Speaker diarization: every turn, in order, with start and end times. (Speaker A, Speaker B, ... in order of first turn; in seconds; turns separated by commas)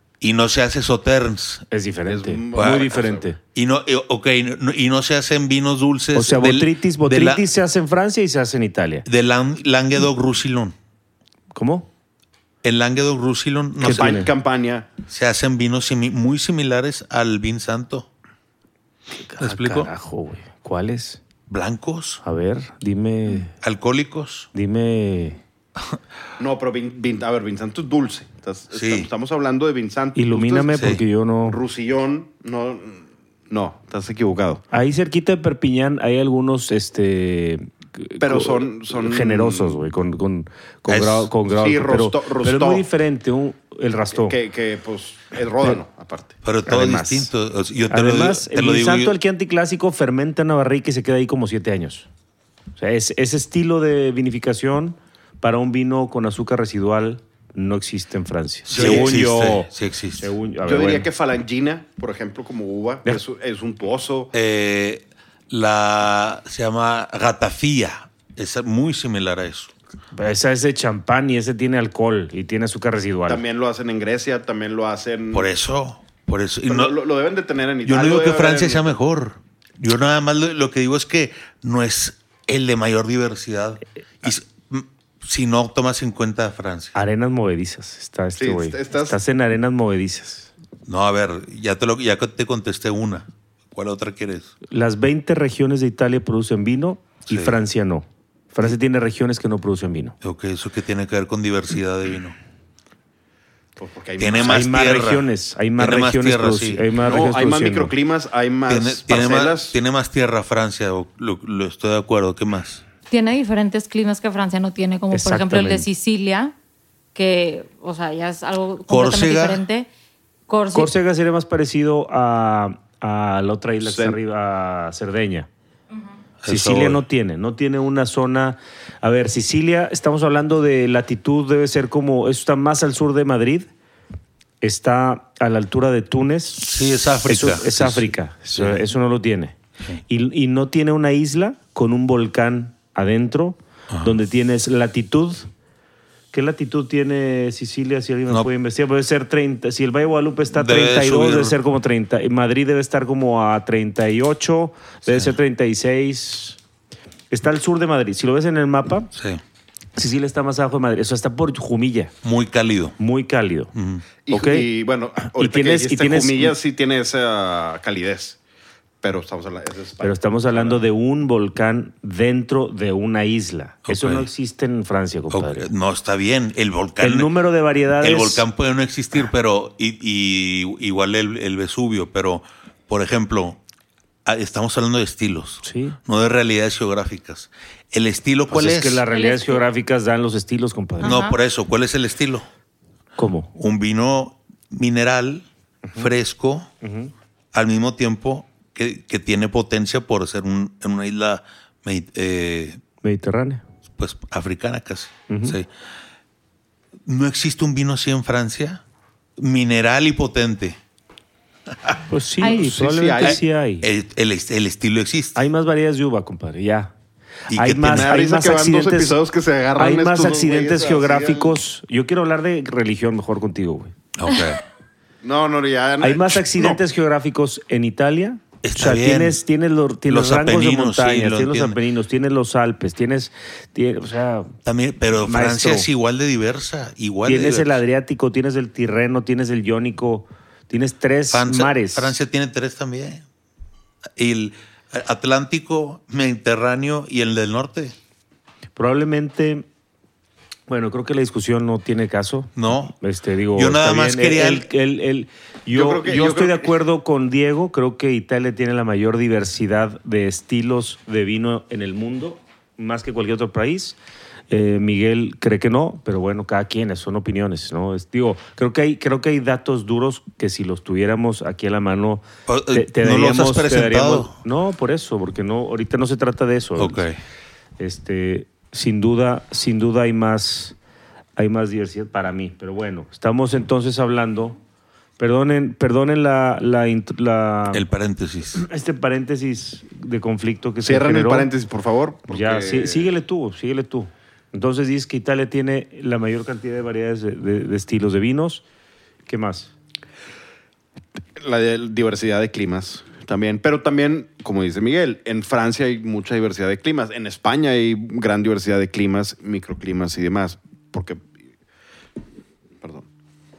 Speaker A: 0.2-1.7, Speaker B: 1.7-3.4, Speaker C: 2.1-3.2, Speaker A: 2.5-2.9, Speaker A: 3.5-7.4, Speaker B: 6.2-9.1, Speaker A: 9.1-10.7, Speaker B: 11.5-11.9, Speaker A: 12.6-14.2, Speaker C: 13.8-14.9, Speaker B: 13.8-14.3, Speaker A: 15.1-18.1, Speaker B: 19.2-21.2, Speaker A: 19.4-19.9, Speaker A: 21.5-22.2, Speaker B: 22.2-23.5, Speaker A: 23.5-24.5, Speaker B: 24.5-25.4, Speaker C: 26.4-30.9, Speaker A: 28.7-29.1, Speaker B: 30.1-31.6, Speaker A: 30.7-31.0, Speaker C: 31.5-34.6, Speaker B: 34.7-44.4, Speaker C: 38.2-39.8, Speaker A: 40.9-41.3, Speaker C: 41.5-42.9, Speaker C: 44.1-46.4, Speaker A: 46.5-49.1, Speaker B: 46.7-47.3, Speaker B: 47.9-52.1, Speaker B: 52.8-61.1, Speaker A: 58.7-60.3, Speaker C: 58.7-59.3, Speaker C: 60.6-64.3, Speaker A: 64.3-69.7, Speaker B: 70.2-73.4, Speaker C: 73.3-75.5, Speaker A: 75.3-77.0, Speaker C: 76.7-79.0, Speaker A: 77.9-86.9, Speaker B: 86.9-90.5, Speaker C: 88.4-89.2, Speaker A: 90.9-94.5, Speaker B: 94.7-100.2, Speaker A: 97.3-97.6, Speaker A: 100.2-102.4, Speaker C: 103.8-104.8, Speaker A: 104.2-105.3, Speaker B: 104.4-107.9, Speaker A: 105.8-106.8, Speaker C: 107.0-109.8, Speaker A: 108.7-112.8, Speaker D: 113.1-116.5, Speaker B: 115.1-115.9, Speaker D: 117.1-119.9, Speaker A: 118.9-119.6, Speaker D: 120.5-120.9, Speaker B: 120.7-125.5, Speaker C: 123.8-124.2, Speaker D: 125.9-126.2, Speaker A: 126.4-127.0, Speaker B: 126.5-133.7, Speaker B: 134.6-139.6, Speaker A: 136.6-138.9, Speaker B: 140.1-145.5, Speaker A: 143.9-144.2, Speaker B: 146.3-156.6, Speaker A: 150.5-151.6, Speaker A: 155.1-155.3, Speaker B: 157.3-159.1, Speaker A: 159.1-159.4, Speaker B: 160.0-162.1, Speaker A: 162.2-163.0, Speaker B: 163.0-163.7, Speaker A: 163.8-164.1, Speaker C: 164.3-168.4, Speaker B: 164.3-164.7, Speaker B: 165.2-166.6, Speaker C: 169.0-170.8, Speaker B: 170.0-175.7, Speaker A: 173.9-174.3, Speaker A: 175.3-177.3, Speaker B: 177.0-178.4, Speaker A: 178.0-183.6, Speaker A: 184.2-189.0, Speaker B: 185.6-186.0, Speaker B: 188.5-191.1, Speaker D: 189.1-189.6, Speaker D: 191.0-191.4, Speaker A: 191.0-192.5, Speaker B: 193.2-193.5, Speaker A: 193.6-196.7, Speaker B: 195.8-196.1, Speaker B: 196.8-197.1, Speaker A: 197.5-202.8, Speaker B: 203.0-203.6, Speaker A: 204.0-205.7, Speaker B: 205.3-205.6, Speaker A: 207.1-208.8, Speaker A: 209.4-210.8, Speaker B: 212.1-213.9, Speaker C: 212.4-213.4, Speaker A: 213.3-215.4, Speaker B: 215.3-216.9, Speaker A: 217.5-218.1, Speaker B: 217.5-219.2, Speaker C: 217.9-221.6, Speaker B: 219.8-223.9, Speaker A: 224.2-224.6, Speaker C: 225.2-226.8, Speaker B: 226.0-234.6, Speaker A: 228.6-229.4, Speaker A: 230.1-231.8, Speaker A: 234.7-237.8, Speaker B: 235.2-235.9, Speaker B: 237.2-242.2, Speaker A: 241.3-243.2, Speaker A: 244.2-247.9, Speaker B: 248.8-249.7, Speaker B: 250.7-264.0, Speaker A: 252.6-252.9, Speaker A: 253.6-254.7, Speaker C: 255.7-256.7, Speaker B: 264.5-277.0, Speaker A: 272.5-274.4, Speaker A: 276.8-277.2, Speaker B: 277.8-280.8, Speaker B: 281.4-284.6, Speaker B: 285.2-287.8, Speaker A: 287.7-288.6, Speaker B: 288.6-291.5, Speaker C: 290.8-293.1, Speaker B: 292.3-298.6, Speaker B: 299.3-299.7, Speaker C: 301.4-311.3, Speaker C: 312.8-313.1